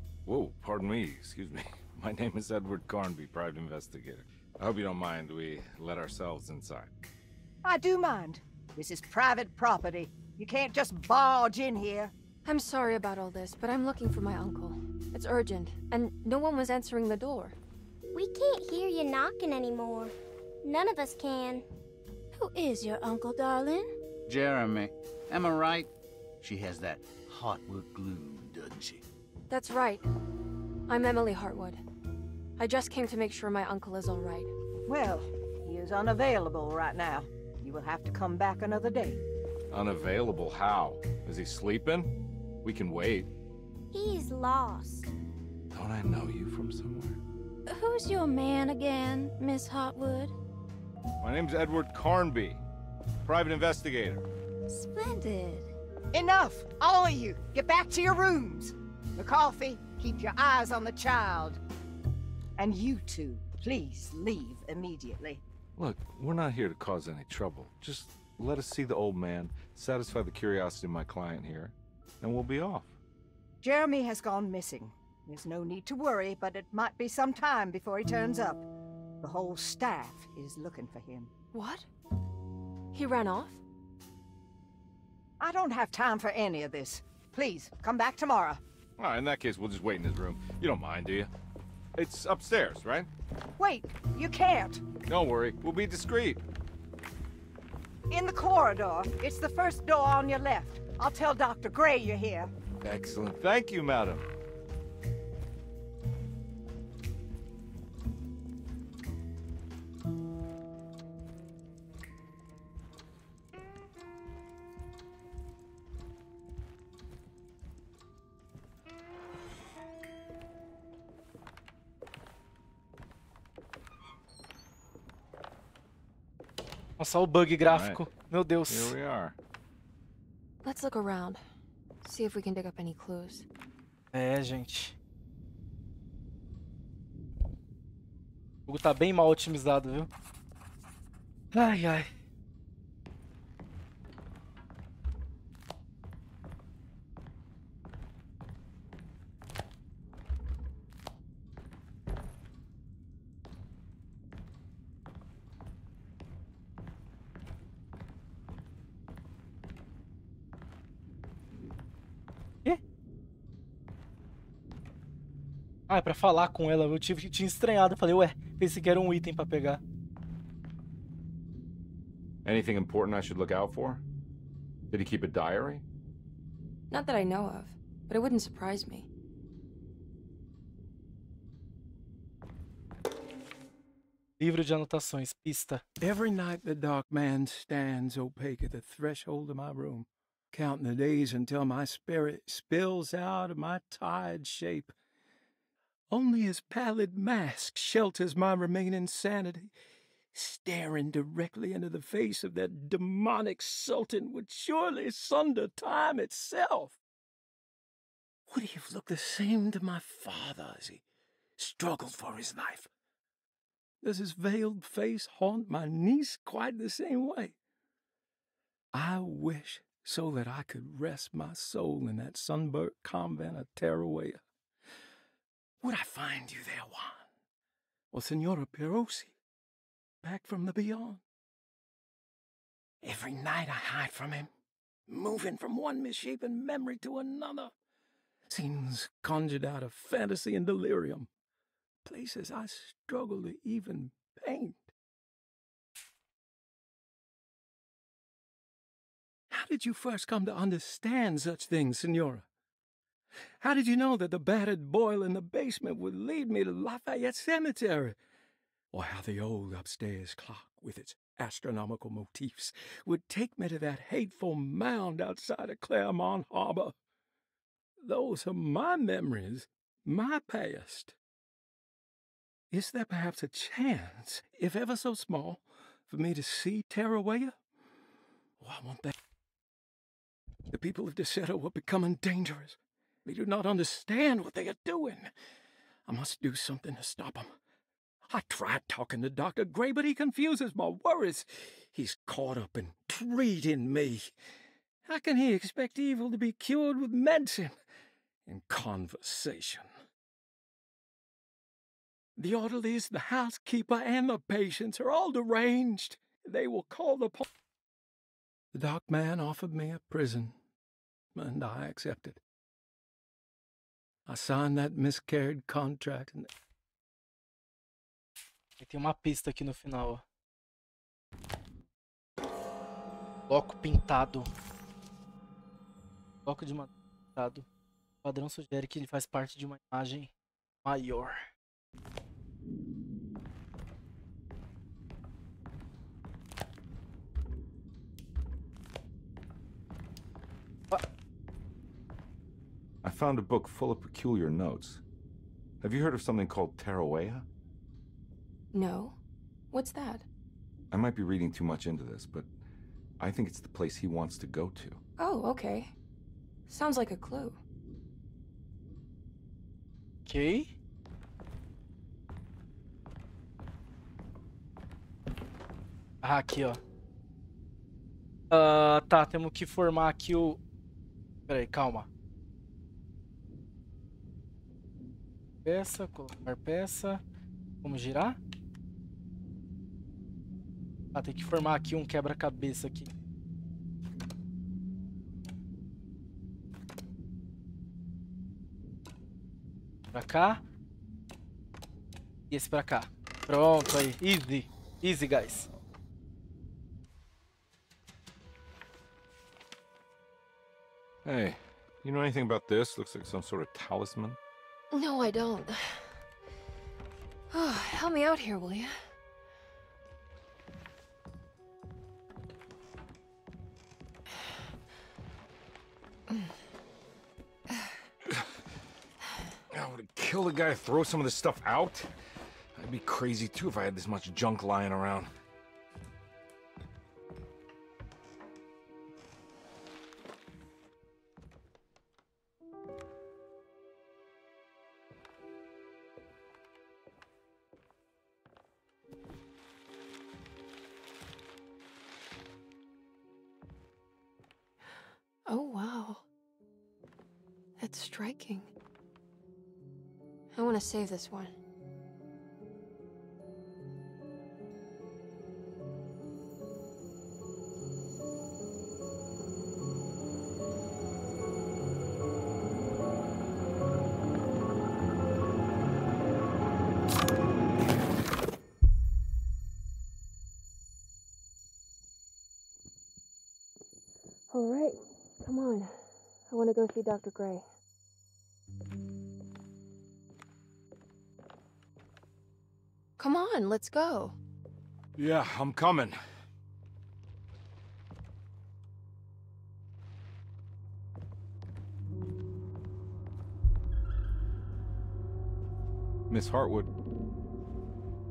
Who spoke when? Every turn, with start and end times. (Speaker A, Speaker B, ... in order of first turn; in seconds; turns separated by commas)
Speaker A: 0.2-6.9, Speaker B: 7.6-12.1, Speaker C: 12.4-17.6, Speaker D: 18.1-21.6, Speaker E: 22.4-23.9, Speaker F: 24.3-25.9, Speaker F: 26.4-29.0, Speaker C: 29.5-30.1, Speaker C: 30.9-31.8, Speaker C: 32.6-34.5, Speaker B: 34.9-39.2, Speaker A: 39.7-43.3, Speaker D: 43.9-45.1, Speaker A: 45.7-47.2, Speaker E: 47.7-50.3, Speaker A: 51.2-52.6, Speaker A: 53.2-54.2, Speaker E: 54.7-55.7, Speaker B: 56.1-61.6, Speaker B: 62.6-65.4, Speaker A: 65.8-73.0, Speaker B: 73.6-78.7, Speaker B: 79.2-81.3, Speaker C: 81.5-81.9, Speaker C: 82.9-83.6, Speaker B: 85.4-88.6, Speaker A: 89.0-91.3, Speaker A: 92.0-93.1, Speaker B: 93.6-94.8, Speaker A: 95.1-96.4, Speaker B: 98.1-102.5, Speaker A: 102.8-104.2, Speaker G: 127.0-128.9, Speaker A: 127.6-128.1, Speaker A: 128.7-129.4, Speaker C: 130.6-131.4, Speaker C: 132.0-133.4, Speaker G: 134.1-134.9, Speaker G: 138.7-140.1, Speaker G: 141.5-142.1, Speaker G: 165.9-169.8, Speaker A: 172.4-174.0, Speaker A: 174.9-175.8, Speaker C: 176.9-179.1, Speaker G: 184.4-185.8, Speaker H: 186.0-194.9, Speaker H: 196.1-199.7, Speaker H: 200.3-207.0, Speaker H: 208.5-211.0, Speaker H: 211.6-212.9, Speaker H: 214.0-217.6, Speaker H: 218.9-224.4, Speaker H: 225.8-227.3, Speaker H: 228.1-229.3, Speaker H: 230.2-231.2, Speaker H: 233.0-234.5, Speaker H: 235.1-237.7, Speaker H: 238.5-241.3, Speaker H: 242.0-244.9, Speaker H: 249.5-252.4, Speaker H: 253.6-258.1, Speaker H: 258.9-266.9, Speaker H: 268.0-271.1, Speaker H: 272.7-277.6, Speaker H: 278.6-279.1, Speaker H: 280.7-285.3, Speaker H: 286.1-287.5, Speaker H: 288.3-294.3, Speaker H: 295.1-297.7, Speaker H: 298.4-299.9, Speaker H: 302.4-307.4, Speaker H: 308.7-310.6, Speaker H: 311.4-312.4, Speaker H: 314.3-316.5, Speaker G: 318.8-320.2, Speaker G: 323.5-324.5, Speaker G: 326.4-327.6, Speaker G: 328.2-330.3, Speaker G: 330.8-331.4, Speaker A: 343.0-345.0, Speaker A: 345.8-347.4, Speaker C: 348.7-349.2, Speaker C: 349.7-350.2, Speaker A: 350.9-352.5, Speaker A: 353.2-355.0, Speaker C: 355.2-355.9, Speaker C: 356.7-357.6, Speaker G: 360.2-360.7, Speaker G: 366.2-366.8, Speaker G: 368.5-370.6, Speaker G: 371.5-372.1, Speaker G: 375.6-377.2, Speaker G: 377.8-378.4, Speaker G: 381.1-383.1, Speaker G: 390.1-390.6, Speaker G: 392.5-395.7, Speaker A: 401.2-404.4, Speaker C: 404.9-406.1, Speaker C: 407.5-408.9, Speaker A: 419.7-422.1, Speaker A: 422.8-425.3, Speaker C: 445.5-446.2, Speaker C: 447.8-448.7, Speaker C: 450.5-451.5, Speaker C: 474.5-477.7, Speaker C: 483.2-484.4, Speaker A: 485.2-486.2, Speaker A: 496.3-496.9